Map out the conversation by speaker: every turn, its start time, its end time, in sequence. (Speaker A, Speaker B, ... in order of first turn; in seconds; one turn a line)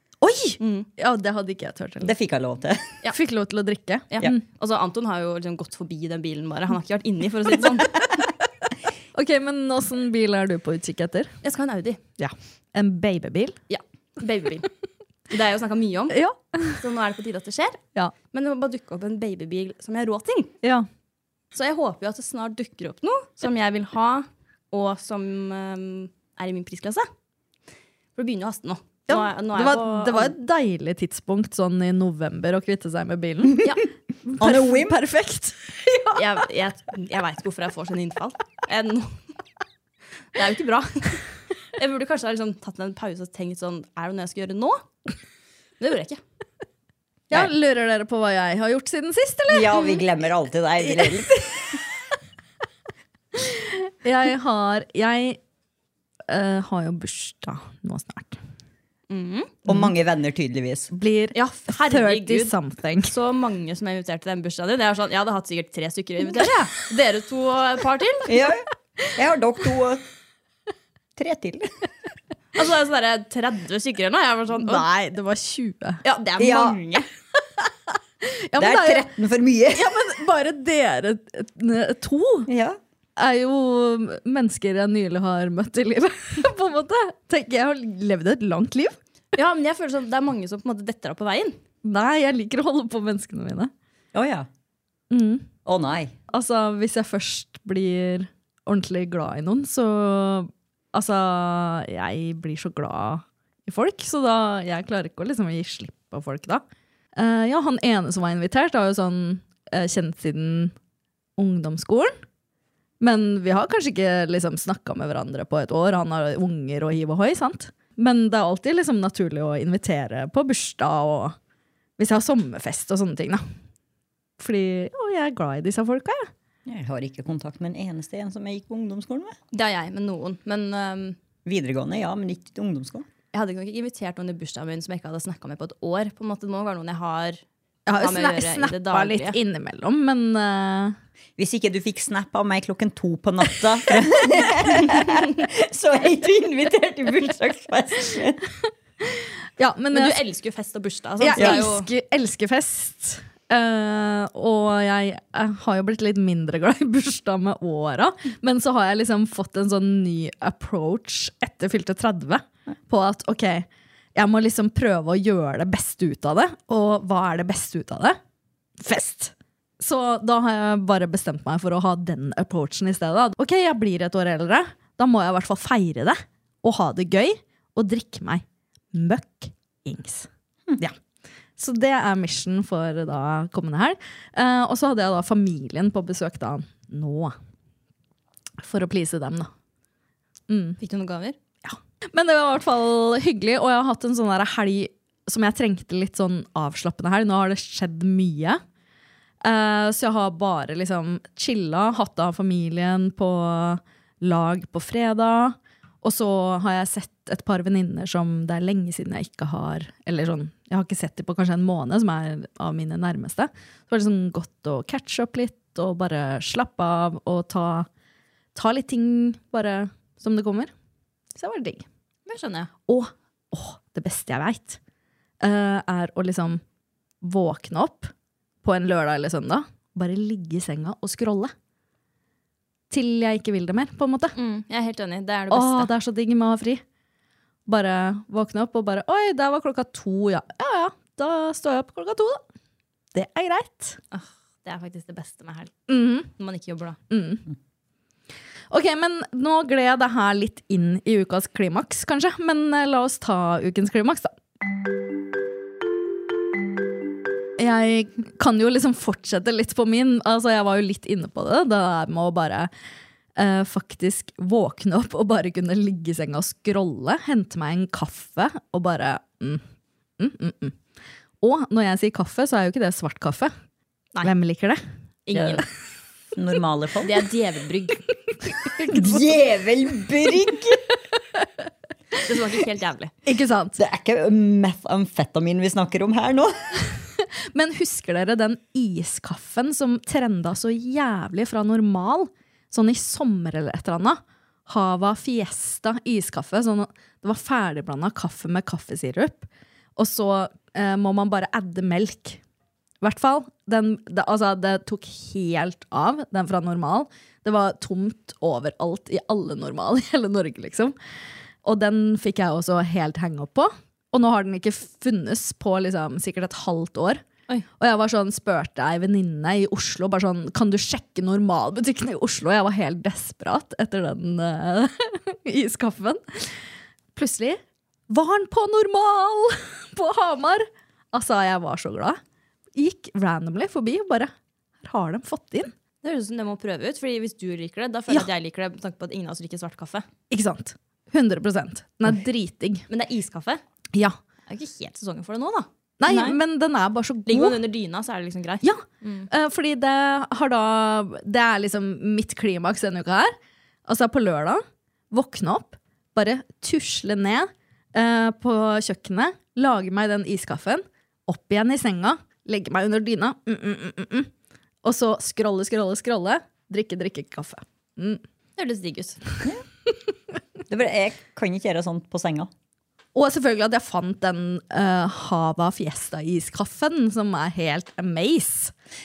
Speaker A: 0.2-2.1
Speaker B: 0.6-0.9
Speaker C: 2.0-3.0
Speaker A: 3.1-4.4
Speaker B: 4.1-8.1
Speaker A: 9.2-11.3
Speaker B: 11.4-12.0
Speaker A: 12.2-13.6
Speaker B: 13.7-14.7
Speaker B: 15.3-20.6
Speaker A: 16.1-16.8
Speaker B: 21.6-27.1
Speaker B: 28.2-30.4
Speaker A: 29.1-33.7
Speaker A: 34.2-36.2
Speaker C: 34.4-35.0
Speaker B: 36.1-39.2
Speaker B: 40.4-41.2
Speaker B: 41.8-44.8
Speaker B: 45.8-46.2
Speaker A: 47.3-50.0
Speaker C: 49.5-51.6
Speaker A: 50.9-51.6
Speaker A: 53.4-55.4
Speaker A: 56.3-58.4
Speaker B: 59.1-59.6
Speaker C: 59.7-60.9
Speaker A: 60.9-63.1
Speaker B: 61.3-68.4
Speaker C: 68.3-70.0
Speaker C: 71.2-71.7
Speaker B: 72.5-74.9
Speaker A: 74.6-76.0
Speaker B: 76.0-77.1
Speaker C: 76.4-76.8
Speaker A: 78.2-79.1
Speaker C: 78.6-80.0
Speaker A: 79.7-82.5
Speaker C: 82.5-82.8
Speaker A: 83.2-89.0
Speaker B: 89.3-91.6
Speaker A: 91.8-93.7
Speaker C: 94.1-94.5
Speaker A: 95.1-95.5
Speaker C: 95.7-96.1
Speaker A: 96.3-106.6
Speaker A: 107.2-110.7
Speaker A: 111.4-112.1
Speaker A: 113.0-121.3
Speaker A: 122.0-123.4
Speaker A: 124.4-126.3
Speaker C: 126.7-129.4
Speaker B: 129.5-131.2
Speaker C: 131.4-133.1
Speaker B: 133.3-137.4
Speaker A: 137.9-141.0
Speaker B: 138.0-139.4
Speaker C: 141.4-148.4
Speaker A: 149.6-150.2
Speaker B: 149.9-151.9
Speaker A: 151.2-168.2
Speaker A: 168.8-180.9
Speaker A: 181.6-187.3
Speaker A: 188.6-189.5
Speaker A: 190.5-190.8
Speaker B: 190.8-191.4
Speaker A: 191.6-198.6
Speaker A: 199.4-217.9
Speaker A: 218.6-220.7
Speaker A: 221.3-221.8
Speaker B: 222.3-222.7
Speaker A: 222.9-224.8
Speaker A: 225.4-226.6
Speaker A: 227.2-228.1
Speaker A: 228.6-231.5
Speaker A: 232.9-234.4
Speaker B: 234.3-235.9
Speaker A: 235.5-236.8
Speaker A: 237.7-242.4
Speaker A: 243.1-244.0
Speaker B: 244.1-247.0
Speaker A: 245.9-246.3
Speaker A: 247.1-247.4
Speaker A: 248.7-254.3
Speaker A: 257.6-262.7
Speaker A: 263.4-269.6
Speaker A: 270.2-270.8
Speaker A: 271.4-273.5
Speaker A: 274.2-274.8
Speaker B: 275.3-275.7
Speaker C: 275.4-275.6
Speaker C: 276.4-277.2
Speaker B: 277.0-278.0
Speaker C: 278.8-280.8
Speaker B: 282.2-283.1
Speaker A: 283.3-283.8
Speaker C: 283.8-286.5
Speaker A: 287.5-302.4
Speaker A: 303.0-310.9
Speaker A: 311.6-317.2
Speaker A: 317.8-326.6
Speaker A: 327.1-332.2
Speaker A: 332.8-334.3
Speaker A: 334.8-335.7
Speaker B: 336.0-340.1
Speaker A: 340.3-342.9
Speaker B: 342.9-343.6
Speaker B: 344.5-346.4
Speaker A: 346.0-347.6
Speaker B: 347.3-349.3
Speaker A: 348.6-353.3
Speaker A: 353.9-364.3
Speaker A: 364.8-368.2
Speaker B: 368.6-369.2
Speaker C: 370.7-372.5
Speaker A: 373.1-378.7